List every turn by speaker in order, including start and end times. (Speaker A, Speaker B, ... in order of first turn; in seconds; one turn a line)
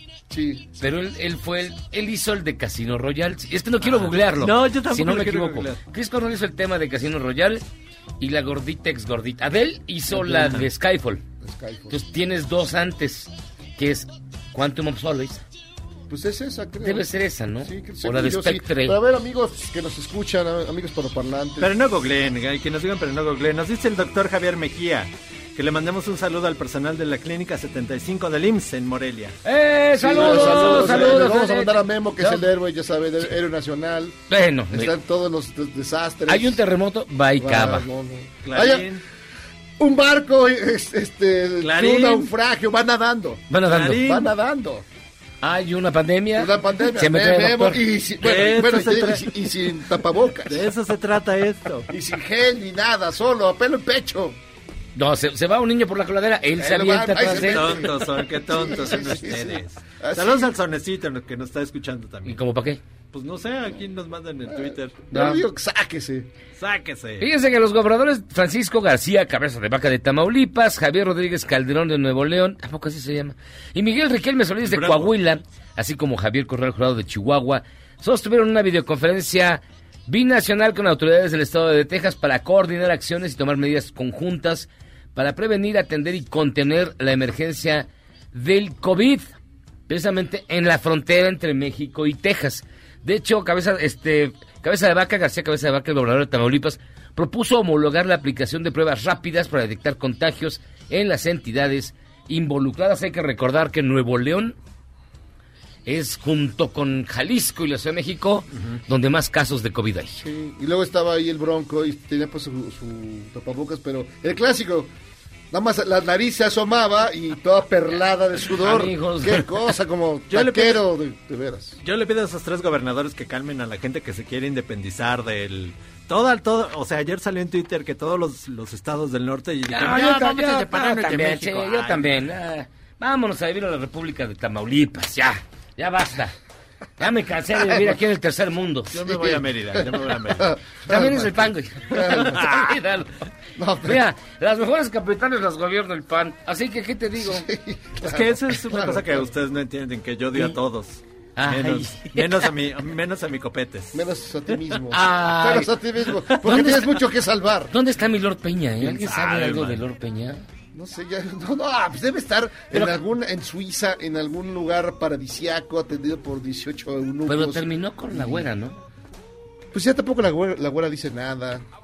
Speaker A: 0.3-0.8
Speaker B: 0.8-7.6
Speaker C: 3.9-5.8
Speaker B: 8.2-11.2
Speaker C: 10.1-10.7
Speaker A: 11.4-12.0
Speaker B: 11.9-15.4
Speaker A: 16.1-17.1
Speaker B: 16.8-19.0
Speaker A: 17.6-21.7
Speaker C: 21.6-29.3
Speaker B: 29.4-32.4
Speaker A: 30.0-34.2
Speaker C: 30.1-31.1
Speaker B: 34.3-34.9
Speaker A: 34.7-36.6
Speaker B: 36.3-37.8
Speaker A: 37.4-38.9
Speaker C: 38.4-39.0
Speaker A: 39.8-44.8
Speaker C: 41.6-42.3
Speaker B: 43.5-44.0
Speaker C: 43.7-44.3
Speaker B: 45.4-47.8
Speaker A: 46.4-50.6
Speaker C: 48.2-49.2
Speaker C: 50.5-51.9
Speaker A: 51.9-54.4
Speaker B: 55.0-57.8
Speaker A: 56.6-60.5
Speaker C: 57.4-62.4
Speaker B: 62.2-62.8
Speaker C: 63.1-65.0
Speaker A: 64.5-66.3
Speaker C: 66.5-67.3
Speaker B: 67.2-89.3
Speaker C: 74.6-75.1
Speaker B: 89.9-104.5
Speaker B: 105.8-110.2
Speaker A: 110.2-114.9
Speaker A: 115.5-121.8
Speaker B: 118.6-119.5
Speaker C: 120.3-120.8
Speaker C: 121.8-132.1
Speaker B: 129.7-136.3
Speaker B: 137.0-138.9
Speaker C: 138.9-140.5
Speaker A: 139.0-142.6
Speaker B: 140.9-143.1
Speaker C: 142.4-142.7
Speaker A: 143.6-144.0
Speaker B: 143.8-147.4
Speaker A: 147.2-149.2
Speaker C: 148.0-154.0
Speaker B: 151.4-152.5
Speaker A: 153.9-157.7
Speaker B: 154.9-155.7
Speaker B: 156.2-156.9
Speaker B: 157.7-160.4
Speaker C: 158.8-159.8
Speaker A: 160.7-168.5
Speaker B: 167.3-168.8
Speaker A: 169.7-171.6